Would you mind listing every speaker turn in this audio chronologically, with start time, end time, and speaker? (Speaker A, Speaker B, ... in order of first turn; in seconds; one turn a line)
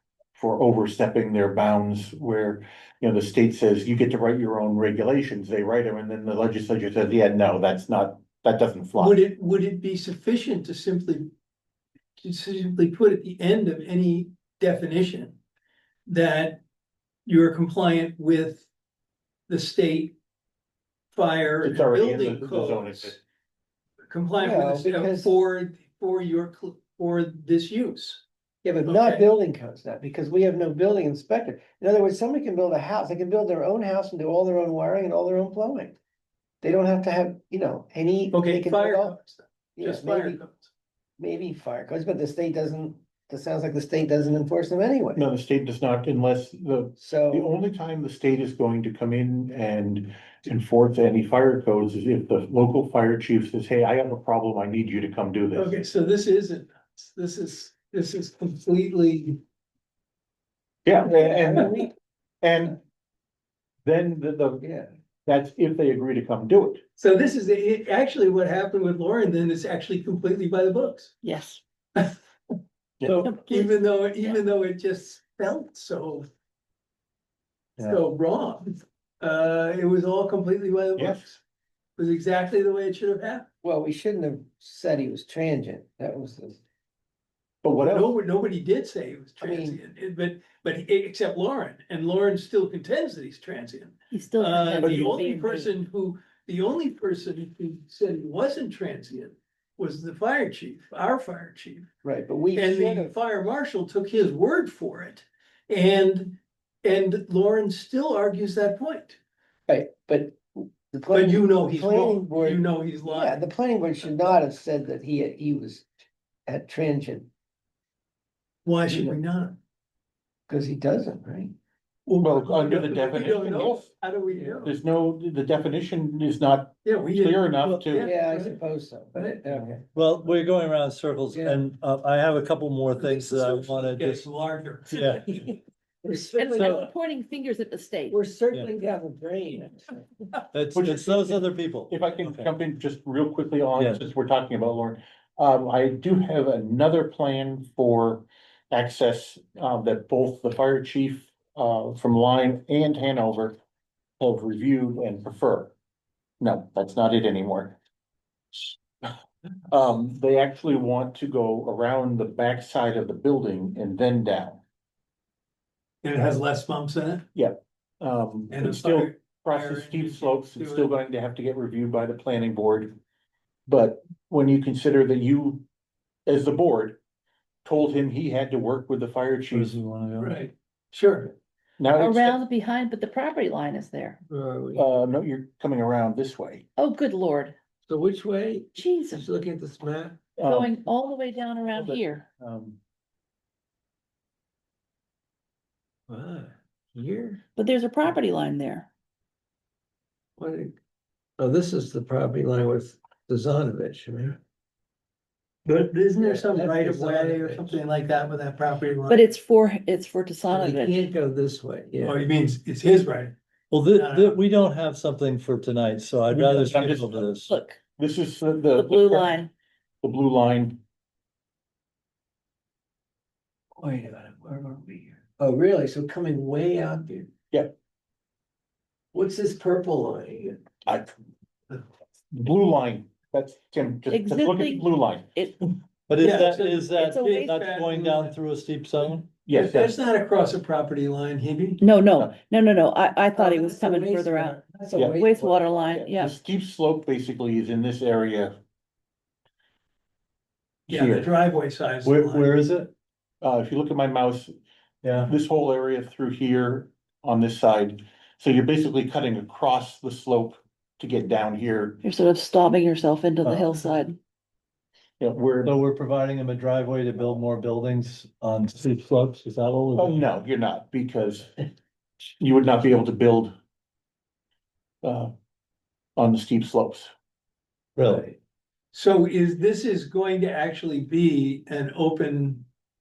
Speaker A: 0.3-9.2
Speaker B: 9.0-11.3
Speaker B: 12.2-15.3
Speaker B: 16.1-16.6
Speaker B: 17.2-18.7
Speaker B: 19.5-20.1
Speaker B: 21.1-23.2
Speaker A: 21.6-23.1
Speaker B: 24.1-28.2
Speaker C: 24.4-25.3
Speaker C: 28.6-36.0
Speaker B: 28.8-29.2
Speaker C: 36.6-39.1
Speaker B: 38.3-40.7
Speaker C: 39.8-40.4
Speaker C: 41.2-45.2
Speaker A: 45.1-55.8
Speaker C: 47.0-47.5
Speaker B: 55.5-59.4
Speaker A: 60.8-61.8
Speaker C: 61.0-61.9
Speaker A: 62.4-62.8
Speaker A: 63.8-64.6
Speaker C: 64.6-64.9
Speaker A: 65.2-66.8
Speaker B: 67.0-71.2
Speaker D: 71.2-71.6
Speaker A: 73.0-73.3
Speaker B: 73.1-76.3
Speaker D: 73.2-74.4
Speaker B: 77.8-81.4
Speaker A: 81.0-81.2
Speaker B: 82.0-83.5
Speaker C: 83.6-86.6
Speaker A: 87.6-88.1
Speaker B: 87.8-101.9
Speaker C: 89.4-89.8
Speaker D: 94.1-95.7
Speaker A: 94.8-95.2
Speaker C: 102.0-103.1
Speaker B: 102.5-109.2
Speaker C: 109.7-115.9
Speaker B: 111.1-113.5
Speaker C: 116.5-117.3
Speaker B: 118.6-119.5
Speaker C: 118.9-119.2
Speaker C: 120.5-121.5
Speaker B: 122.0-124.7
Speaker A: 122.2-123.9
Speaker C: 124.3-124.7
Speaker A: 124.6-128.1
Speaker B: 126.8-128.6
Speaker C: 128.0-129.8
Speaker E: 129.9-134.3
Speaker C: 131.3-131.6
Speaker B: 133.0-135.0
Speaker E: 134.9-135.3
Speaker C: 135.1-136.9
Speaker D: 136.3-138.2
Speaker C: 138.1-140.3
Speaker E: 140.5-142.5
Speaker A: 140.7-153.6
Speaker E: 143.8-144.1
Speaker A: 154.2-155.7
Speaker A: 156.4-157.8
Speaker A: 158.5-159.1
Speaker A: 159.7-164.6
Speaker B: 166.0-167.2
Speaker A: 167.3-173.0
Speaker B: 168.5-170.9
Speaker A: 173.7-175.6
Speaker A: 176.2-177.0
Speaker A: 177.6-179.8
Speaker E: 179.5-180.4
Speaker B: 180.2-181.3
Speaker A: 181.8-182.4
Speaker D: 182.0-184.2
Speaker C: 184.2-184.9
Speaker A: 184.7-186.6
Speaker D: 186.8-187.5
Speaker C: 187.9-190.3
Speaker D: 188.7-189.2
Speaker A: 190.4-190.7
Speaker D: 190.4-192.3
Speaker A: 191.8-192.8
Speaker C: 196.1-197.4
Speaker D: 197.6-198.9
Speaker C: 200.4-200.8
Speaker C: 201.4-204.4
Speaker B: 205.6-209.2
Speaker C: 206.2-207.8
Speaker D: 209.1-211.0
Speaker C: 210.5-212.2
Speaker B: 212.0-213.3
Speaker E: 213.7-217.5
Speaker B: 213.9-214.4
Speaker A: 216.3-217.3
Speaker D: 217.4-217.8
Speaker A: 218.0-219.4
Speaker D: 218.7-219.5
Speaker A: 220.0-220.8
Speaker C: 223.8-227.3
Speaker C: 229.1-230.6
Speaker A: 232.3-235.3
Speaker D: 234.1-235.7
Speaker E: 236.1-239.3
Speaker B: 236.2-238.3
Speaker D: 237.1-237.5
Speaker A: 239.4-240.0
Speaker B: 239.5-241.8
Speaker D: 241.8-244.6
Speaker C: 243.3-245.5
Speaker A: 244.9-248.6
Speaker D: 245.1-246.3
Speaker A: 250.9-251.3
Speaker B: 250.9-252.5
Speaker E: 252.0-252.9
Speaker A: 253.4-254.5
Speaker E: 255.0-255.3
Speaker A: 255.2-262.0
Speaker D: 262.0-264.2
Speaker E: 263.4-263.9
Speaker A: 265.2-265.7
Speaker E: 265.6-270.2
Speaker A: 269.9-271.5
Speaker A: 272.4-273.5
Speaker A: 275.0-275.3
Speaker A: 276.2-277.1
Speaker E: 277.9-278.4
Speaker B: 278.9-282.6